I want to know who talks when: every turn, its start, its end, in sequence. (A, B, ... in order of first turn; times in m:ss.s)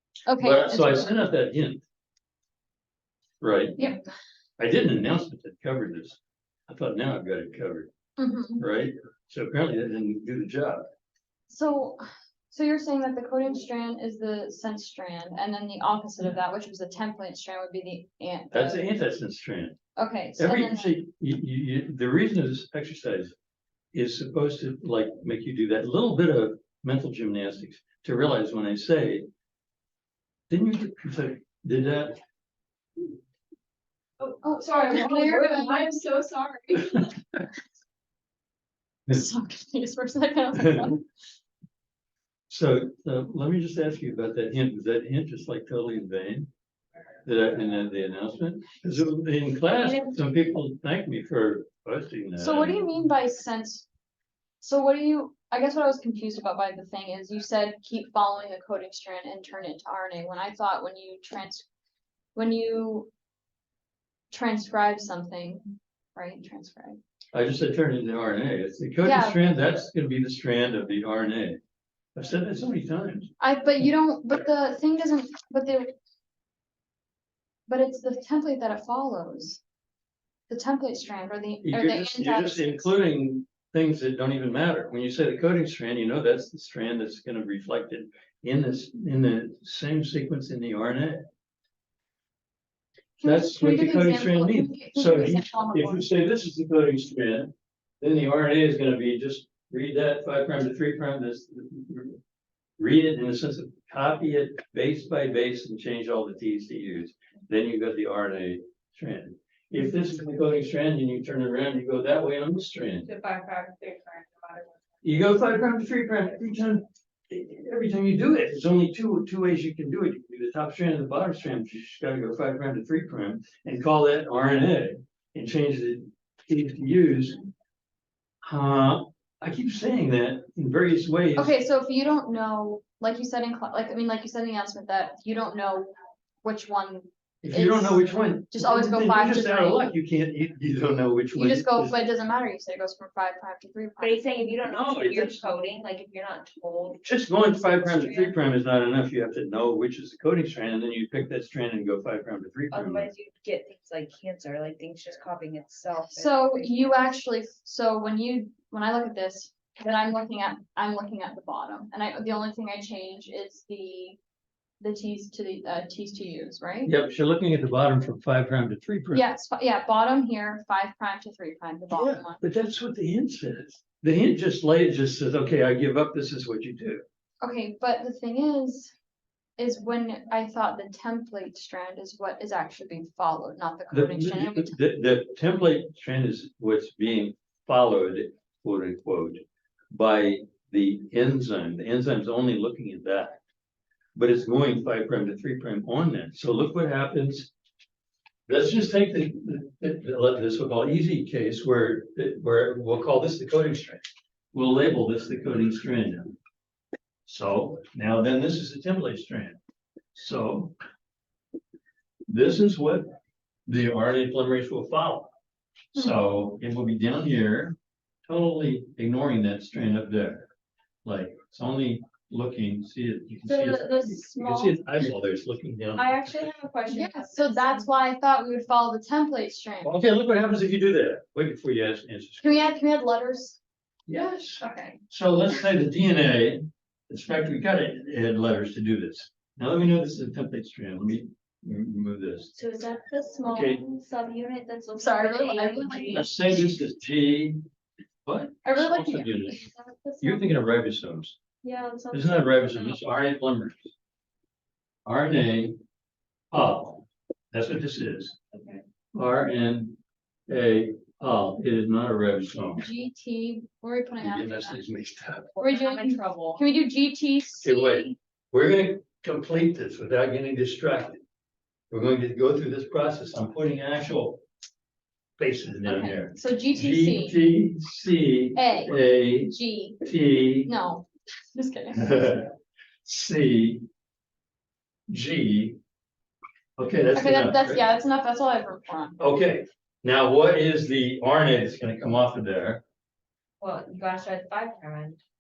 0:00.3-0:01.2 A
0:00.4-0:01.8 B
0:03.4-0:03.8 B
0:03.8-0:04.0 A
0:04.6-0:07.9 B
0:08.2-0:08.6 A
0:08.6-0:10.9 B
0:11.5-0:18.9 A
0:18.5-0:19.8 B
0:20.0-0:20.9 A
0:20.4-0:23.3 B
0:23.9-0:29.3 B
0:30.5-0:32.2 B
0:34.2-0:36.6 C
0:34.4-0:36.1 A
0:39.1-0:41.1 A
0:40.6-0:40.9 B
0:42.5-0:46.5 B
0:47.2-0:52.9 B
0:52.4-0:53.9 A
0:54.6-1:01.7 A
1:02.4-1:03.1 A
1:04.3-1:07.0 A
1:07.3-1:11.6 B
1:09.0-1:09.5 A
1:12.2-1:13.3 B
1:13.4-1:15.9 A
1:17.7-1:19.6 A
1:20.5-1:22.9 A
1:21.6-1:31.3 B
1:33.2-1:36.0 A
1:33.2-1:42.2 B
1:42.8-1:53.1 B
1:53.0-1:54.8 C
1:55.0-2:07.4 B
2:08.4-2:11.6 B
2:11.4-2:19.9 A
2:17.4-2:22.0 B
2:21.3-2:24.2 A
2:24.0-2:28.4 C
2:24.6-2:25.4 B
2:27.0-2:33.1 B
2:32.7-2:37.1 C
2:36.1-2:44.2 A
2:44.8-2:46.9 A
2:46.8-2:49.2 B
2:49.1-2:52.4 A
2:51.9-2:57.0 B
2:57.4-2:58.9 A
2:59.6-3:04.8 A
3:03.9-3:13.4 B
3:14.2-3:17.5 B
3:18.5-3:26.3 B
3:27.3-3:29.6 B
3:30.2-3:30.8 B
3:32.3-3:33.0 B
3:33.7-3:35.3 B
3:35.9-3:37.8 B
3:38.3-3:40.5 B
3:41.0-3:46.4 B
3:43.4-3:44.8 C
3:46.0-3:47.9 C
3:46.9-3:49.9 A
3:49.8-3:52.7 B
3:52.4-3:53.6 A
3:54.1-4:02.5 B
3:54.6-3:55.0 C
4:02.6-4:06.3 C
4:03.5-4:03.8 B
4:05.0-4:06.3 A
4:06.1-4:07.6 B
4:08.3-4:09.6 B
4:08.6-4:09.5 A
4:09.6-4:10.5 C
4:10.2-4:11.4 B
4:11.6-4:13.0 C
4:12.1-4:13.9 B
4:15.0-4:15.8 B
4:16.5-4:18.4 B
4:18.5-4:18.8 C
4:19.1-4:20.0 B
4:20.5-4:22.8 B
4:22.8-4:24.8 A
4:24.2-4:25.5 B
4:25.6-4:26.6 C
4:25.6-4:28.1 A
4:27.6-4:31.2 B
4:31.9-4:34.4 B
4:35.4-4:40.7 B
4:35.8-4:37.4 A
4:38.6-4:40.0 A
4:40.7-4:42.3 A
4:42.0-4:42.5 B
4:43.0-4:43.8 B
4:45.1-4:45.8 B
4:46.8-4:47.8 B
4:47.1-4:49.2 A
4:49.2-4:52.8 B
4:53.6-4:55.2 C